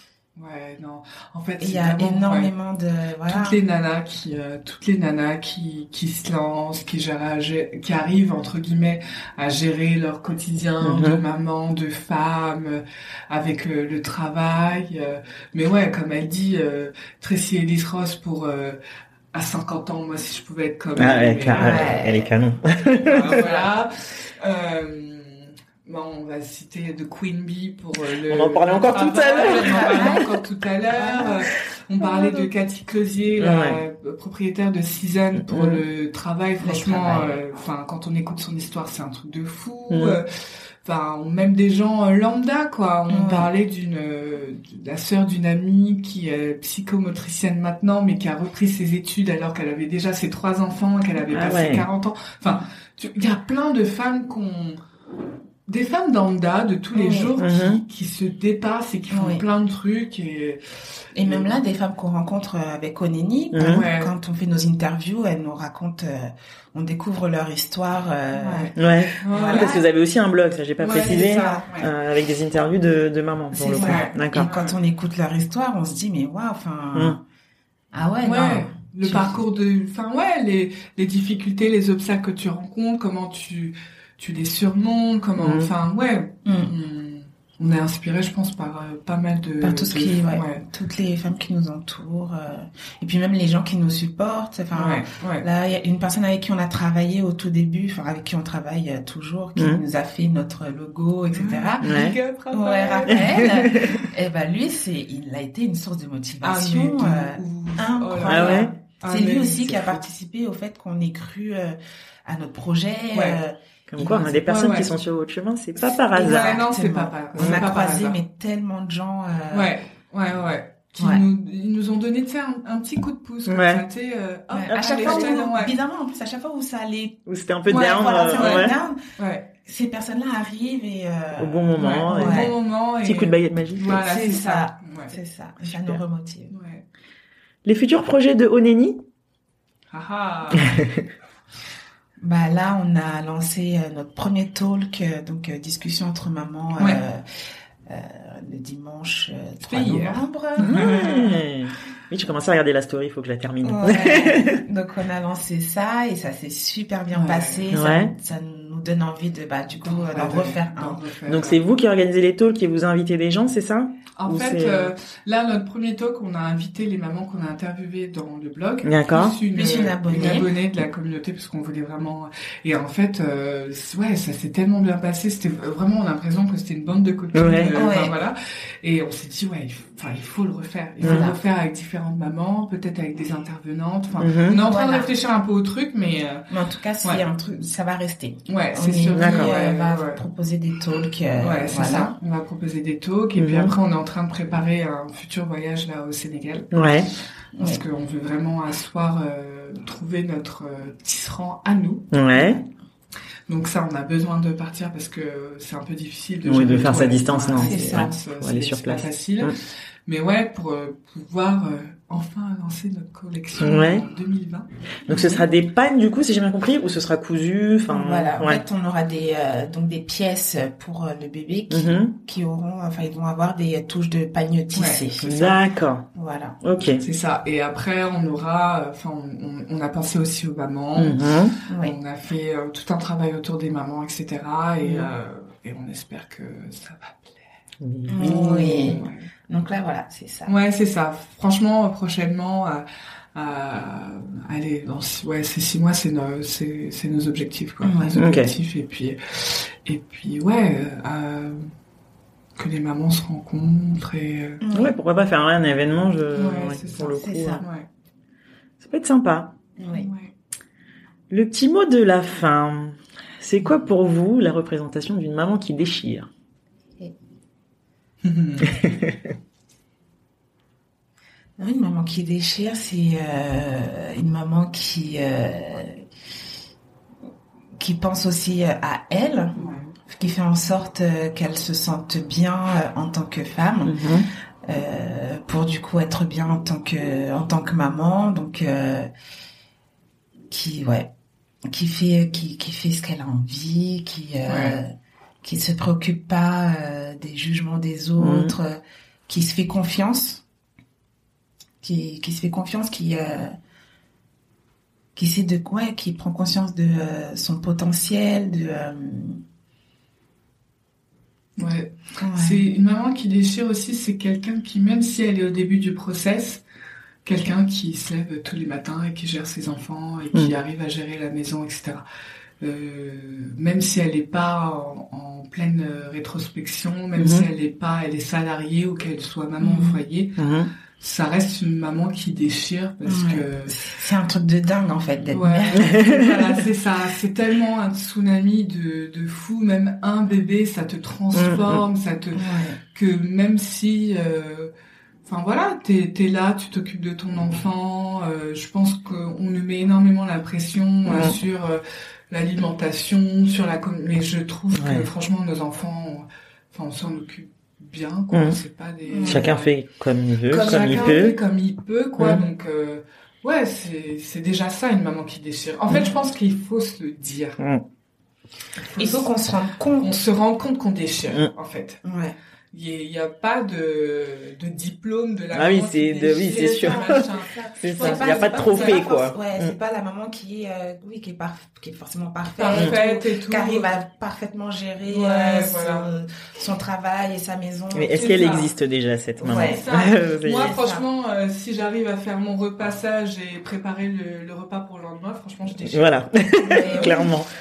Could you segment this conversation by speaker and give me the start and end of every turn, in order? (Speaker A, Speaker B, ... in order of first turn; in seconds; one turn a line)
Speaker A: 0.4-2.5
Speaker B: 1.6-3.6
Speaker A: 3.3-18.8
Speaker C: 10.8-11.2
Speaker A: 19.3-21.9
Speaker C: 21.0-23.4
Speaker B: 21.5-22.3
Speaker A: 22.9-54.8
Speaker C: 28.3-30.3
Speaker B: 29.5-30.3
Speaker B: 30.9-31.4
Speaker B: 32.0-32.5
Speaker C: 33.4-33.8
Speaker C: 35.5-35.8
Speaker B: 36.6-37.4
Speaker C: 39.9-40.2
Speaker B: 43.1-43.5
Speaker C: 51.3-51.9
Speaker A: 55.7-60.6
Speaker B: 56.9-57.4
Speaker C: 57.4-57.8
Speaker B: 59.1-59.4
Speaker B: 61.1-68.7
Speaker A: 61.2-61.5
Speaker C: 63.5-63.9
Speaker A: 63.6-64.1
Speaker A: 68.3-69.8
Speaker C: 68.8-74.5
Speaker B: 69.3-69.8
Speaker A: 70.8-71.9
Speaker B: 71.0-71.7
Speaker B: 73.5-77.2
Speaker A: 73.8-74.7
Speaker B: 77.9-79.4
Speaker A: 78.2-90.7
Speaker C: 85.4-85.7
Speaker B: 86.5-86.7
Speaker B: 89.6-114.4
Speaker A: 94.7-95.5
Speaker C: 99.6-99.8
Speaker A: 101.3-103.9
Speaker C: 101.8-102.2
Speaker C: 103.1-104.0
Speaker A: 106.4-110.0
Speaker C: 108.3-108.7
Speaker A: 113.1-113.4
Speaker C: 113.9-116.6
Speaker A: 114.4-114.9
Speaker A: 115.8-118.2
Speaker B: 116.2-119.7
Speaker C: 117.4-117.6
Speaker A: 119.5-125.7
Speaker B: 121.0-121.2
Speaker C: 123.5-123.8
Speaker B: 124.5-129.0
Speaker C: 124.7-125.4
Speaker C: 127.3-128.8
Speaker A: 127.7-129.5
Speaker B: 129.6-132.5
Speaker C: 131.4-134.0
Speaker A: 131.8-135.2
Speaker B: 134.0-136.5
Speaker C: 135.7-136.0
Speaker A: 136.5-136.8
Speaker C: 137.7-139.0
Speaker A: 139.9-140.8
Speaker C: 140.7-141.0
Speaker B: 142.2-147.2
Speaker A: 146.8-147.0
Speaker B: 147.9-151.1
Speaker A: 149.6-151.4
Speaker C: 150.6-154.6
Speaker B: 153.6-161.1
Speaker A: 157.1-157.7
Speaker C: 157.7-158.1
Speaker A: 159.8-161.6
Speaker C: 161.3-164.9
Speaker A: 164.2-186.5
Speaker C: 168.8-169.4
Speaker B: 169.5-170.5
Speaker C: 177.3-177.9
Speaker B: 177.7-178.2
Speaker B: 181.0-181.4
Speaker C: 181.0-181.3
Speaker C: 184.2-184.6
Speaker B: 184.5-185.1
Speaker B: 186.5-192.1
Speaker A: 188.5-190.2
Speaker C: 189.1-189.6
Speaker A: 191.4-196.8
Speaker C: 193.4-193.7
Speaker C: 196.7-197.1
Speaker B: 197.6-197.8
Speaker A: 197.6-202.1
Speaker C: 202.1-202.6
Speaker A: 203.5-209.5
Speaker C: 206.4-209.5
Speaker B: 207.5-208.1
Speaker A: 210.1-214.7
Speaker C: 213.6-214.1
Speaker C: 215.1-218.6
Speaker B: 215.1-215.5
Speaker B: 217.9-225.6
Speaker C: 221.7-222.1
Speaker A: 224.7-225.0
Speaker C: 225.2-226.1
Speaker B: 226.1-226.6
Speaker C: 226.6-227.0
Speaker A: 227.0-231.2
Speaker C: 231.0-231.6
Speaker B: 231.7-232.0
Speaker A: 231.8-237.4
Speaker C: 237.8-239.0
Speaker B: 238.1-240.5
Speaker A: 238.8-239.3
Speaker A: 240.5-251.7
Speaker B: 247.8-248.2
Speaker C: 248.2-248.5
Speaker A: 252.6-254.6
Speaker B: 254.6-255.0
Speaker C: 254.7-257.6
Speaker A: 256.4-257.9
Speaker B: 257.1-257.7
Speaker C: 258.8-259.6
Speaker B: 259.8-260.1
Speaker A: 259.9-260.3
Speaker C: 261.3-266.3
Speaker A: 268.2-268.8
Speaker C: 268.7-269.1
Speaker B: 271.6-276.0
Speaker B: 277.8-284.1
Speaker A: 279.6-279.9
Speaker C: 283.9-284.3
Speaker B: 284.6-289.1
Speaker B: 290.5-291.1
Speaker B: 291.7-294.9
Speaker A: 294.5-294.8
Speaker B: 295.4-300.4
Speaker C: 298.2-298.6
Speaker B: 301.8-303.5
Speaker B: 305.2-309.4
Speaker A: 311.6-316.6
Speaker B: 312.2-312.6
Speaker A: 317.2-322.0
Speaker A: 322.6-330.4
Speaker C: 327.2-327.5
Speaker B: 329.6-330.0
Speaker C: 330.4-330.7
Speaker A: 331.0-333.9
Speaker B: 333.0-335.9
Speaker A: 335.3-344.7
Speaker C: 335.8-336.4
Speaker C: 341.3-341.8
Speaker B: 342.4-342.8
Speaker A: 345.2-359.8
Speaker C: 351.1-351.4
Speaker C: 354.7-355.1
Speaker C: 358.3-358.6
Speaker B: 359.1-359.5
Speaker C: 359.2-361.4
Speaker B: 360.5-361.2
Speaker A: 360.6-367.6
Speaker C: 362.2-362.4
Speaker C: 367.6-367.9
Speaker A: 368.9-369.3
Speaker B: 369.0-370.2
Speaker A: 370.0-372.0
Speaker B: 372.0-372.4
Speaker A: 372.7-379.1
Speaker C: 375.5-379.8
Speaker B: 376.4-388.6
Speaker A: 382.6-383.9
Speaker A: 385.1-386.1
Speaker C: 387.9-390.8
Speaker A: 388.1-388.7
Speaker B: 389.4-391.1
Speaker A: 389.4-396.1
Speaker C: 395.8-397.5
Speaker B: 396.6-397.3
Speaker A: 396.7-397.3